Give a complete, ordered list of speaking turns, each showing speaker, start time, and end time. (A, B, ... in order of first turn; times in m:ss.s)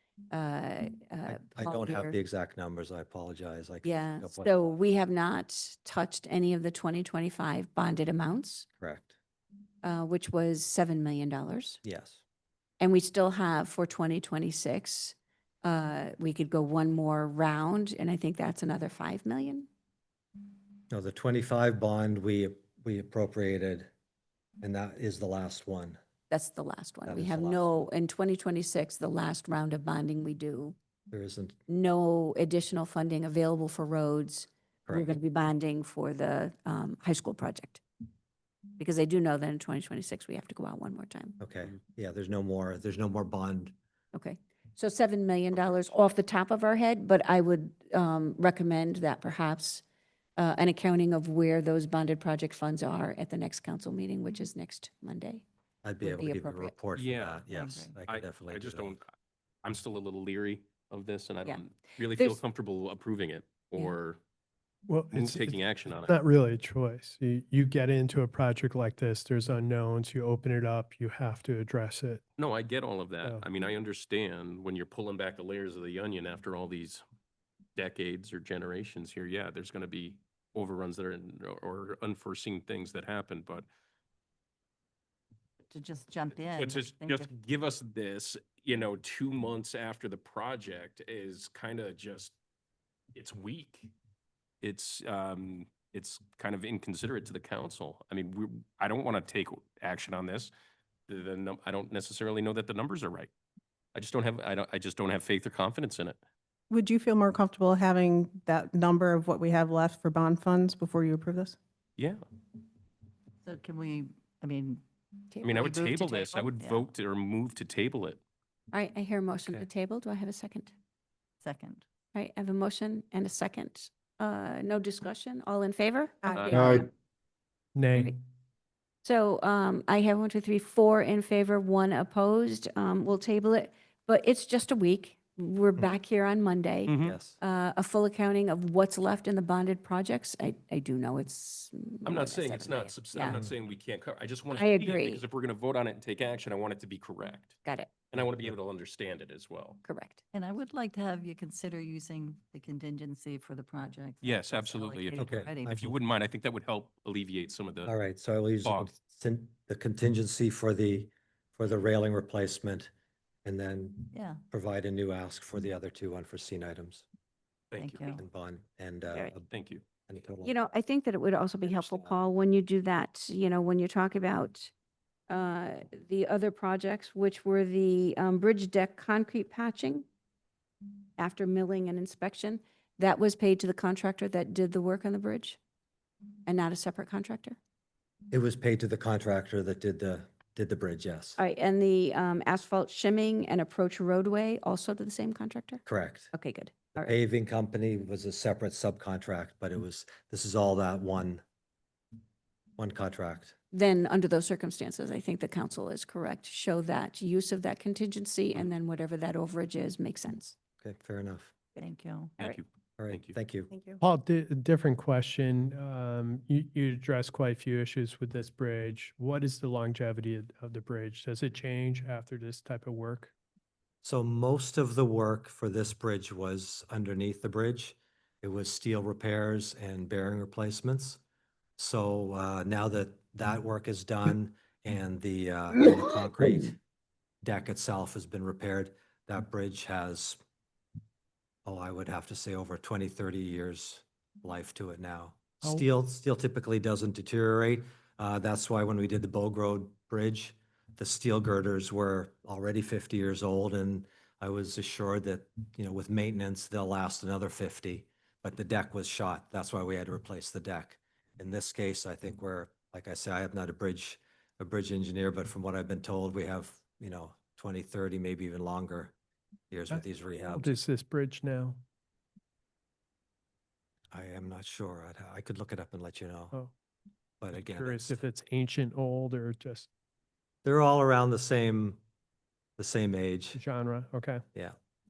0:00.3-0:02.2 A
0:01.3-0:04.5 B
0:03.8-0:08.7 A
0:08.8-0:09.1 B
0:09.8-0:11.8 A
0:11.8-0:12.2 B
0:12.8-0:19.7 A
0:20.9-0:23.9 B
0:24.6-0:26.0 B
0:26.3-0:30.8 A
0:27.0-0:27.8 B
0:31.1-0:31.6 B
0:31.7-0:37.8 A
0:34.9-0:35.2 B
0:38.8-0:41.4 A
0:41.4-0:43.7 B
0:44.1-0:49.8 A
0:50.4-0:55.4 A
0:55.8-0:59.0 B
0:56.0-0:56.7 A
0:56.9-0:59.0 C
0:57.5-0:58.0 D
0:59.6-1:04.2 C
1:02.1-1:02.4 A
1:04.9-1:12.2 E
1:05.1-1:06.1 C
1:12.4-1:17.0 C
1:17.8-1:23.6 C
1:25.7-1:27.3 D
1:26.5-1:32.3 C
1:33.1-1:33.9 C
1:34.6-1:40.5 C
1:41.1-1:43.3 C
1:43.9-1:46.2 C
1:46.7-1:51.6 F
1:53.4-1:54.5 D
1:55.3-1:56.8 D
1:55.4-1:58.2 C
1:58.7-2:00.7 A
2:01.4-2:01.8 D
2:02.1-2:06.9 A
2:06.3-2:06.8 C
2:07.8-2:08.1 E
2:09.0-2:23.4 A
2:16.9-2:17.2 C
2:17.0-2:17.4 B
2:22.0-2:27.6 C
2:23.2-2:23.5 B
2:24.5-2:25.2 A
2:27.6-2:27.9 A
2:28.1-2:29.8 C
2:28.2-2:28.5 B
2:29.8-2:30.2 A
2:30.3-2:35.8 D
2:34.2-2:37.9 C
2:35.2-2:36.0 B
2:37.8-2:42.9 B
2:38.6-2:38.9 C
2:43.4-2:47.0 B
2:44.1-2:44.4 D
2:47.7-2:48.2 C
2:47.8-2:48.2 D
2:48.2-2:49.4 B
2:49.5-2:49.8 C
2:50.1-2:50.5 B
2:50.4-2:54.7 A
2:51.6-2:52.2 B
2:55.3-3:00.0 A
3:01.2-3:05.6 A
3:06.4-3:07.6 A
3:08.3-3:11.4 B
3:11.4-3:17.2 A
3:15.8-3:16.3 B
3:17.0-3:21.4 B
3:22.8-3:23.5 B
3:23.7-3:30.6 A
3:30.8-3:31.5 B
3:31.8-3:32.3 D
3:32.4-3:33.4 C
3:33.0-3:33.7 B
3:34.0-3:43.3 E
3:44.0-3:51.2 B
3:51.8-3:56.8 B
3:57.4-4:00.4 B
4:01.6-4:29.1 B
4:29.7-4:30.8 B
4:29.9-4:31.8 E
4:34.1-4:36.5 B
4:37.4-4:38.2 B
4:37.5-4:39.9 E
4:40.6-4:42.0 B
4:42.8-4:43.6 B
4:43.5-4:44.4 E